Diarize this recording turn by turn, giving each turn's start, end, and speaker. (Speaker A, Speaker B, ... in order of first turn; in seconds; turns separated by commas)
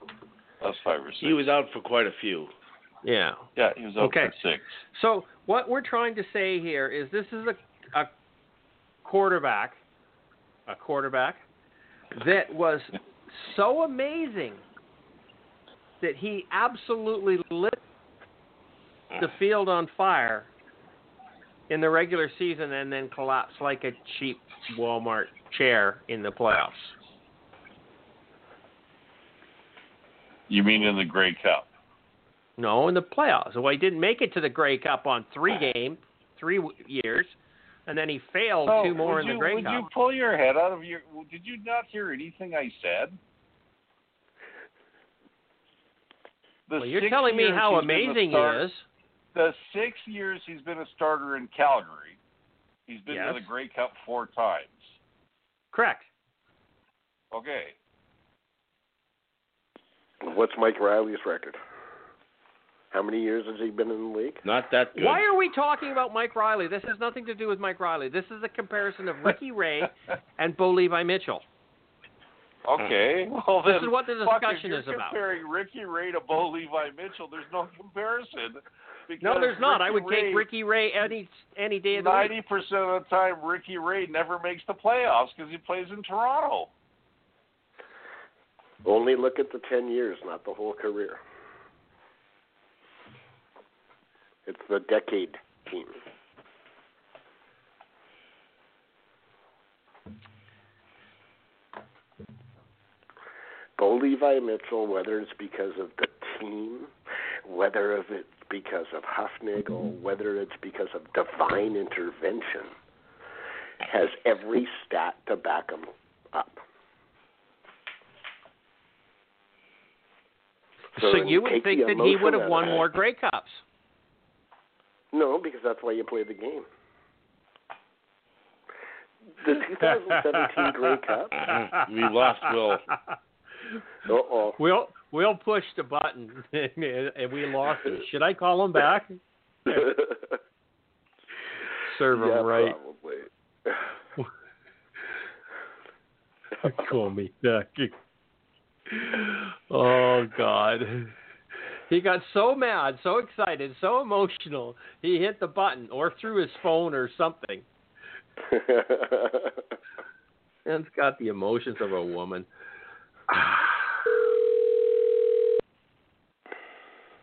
Speaker A: 0.6-1.5, Speaker B: 1.2-2.5, Speaker C: 3.0-3.5, Speaker A: 3.5-4.7, Speaker C: 4.0-4.3, Speaker C: 4.9-8.1, Speaker C: 9.0-9.8, Speaker C: 10.7-11.4, Speaker C: 12.1-14.6, Speaker C: 16.0-17.8, Speaker C: 19.2-20.5, Speaker C: 21.7-26.9, Speaker A: 30.5-31.7, Speaker C: 32.6-37.4, Speaker C: 37.9-39.9, Speaker A: 38.6-43.2, Speaker A: 46.7-48.6, Speaker C: 46.8-48.8, Speaker A: 49.3-52.2, Speaker A: 52.9-54.8, Speaker C: 53.1-53.5, Speaker C: 55.7-56.1, Speaker A: 57.3-57.7, Speaker D: 60.2-61.6, Speaker D: 62.9-64.4, Speaker B: 64.4-65.2, Speaker C: 64.9-71.4, Speaker A: 72.6-80.5, Speaker C: 73.6-75.2, Speaker C: 79.2-82.3, Speaker A: 81.9-86.7, Speaker D: 88.8-91.2, Speaker D: 94.5-96.0, Speaker D: 103.8-106.9, Speaker D: 107.4-112.7, Speaker D: 113.8-116.6, Speaker C: 121.0-123.6, Speaker D: 121.0-122.8, Speaker D: 125.1-126.7, Speaker D: 129.4-131.4, Speaker C: 130.1-130.6, Speaker B: 131.3-132.9, Speaker D: 134.0-134.6, Speaker C: 134.6-139.9, Speaker D: 139.7-140.3, Speaker C: 141.8-142.8, Speaker D: 142.1-143.8, Speaker C: 146.6-147.9, Speaker C: 148.9-151.1, Speaker C: 151.9-157.7, Speaker D: 158.4-159.6, Speaker C: 160.6-162.5, Speaker C: 163.3-163.6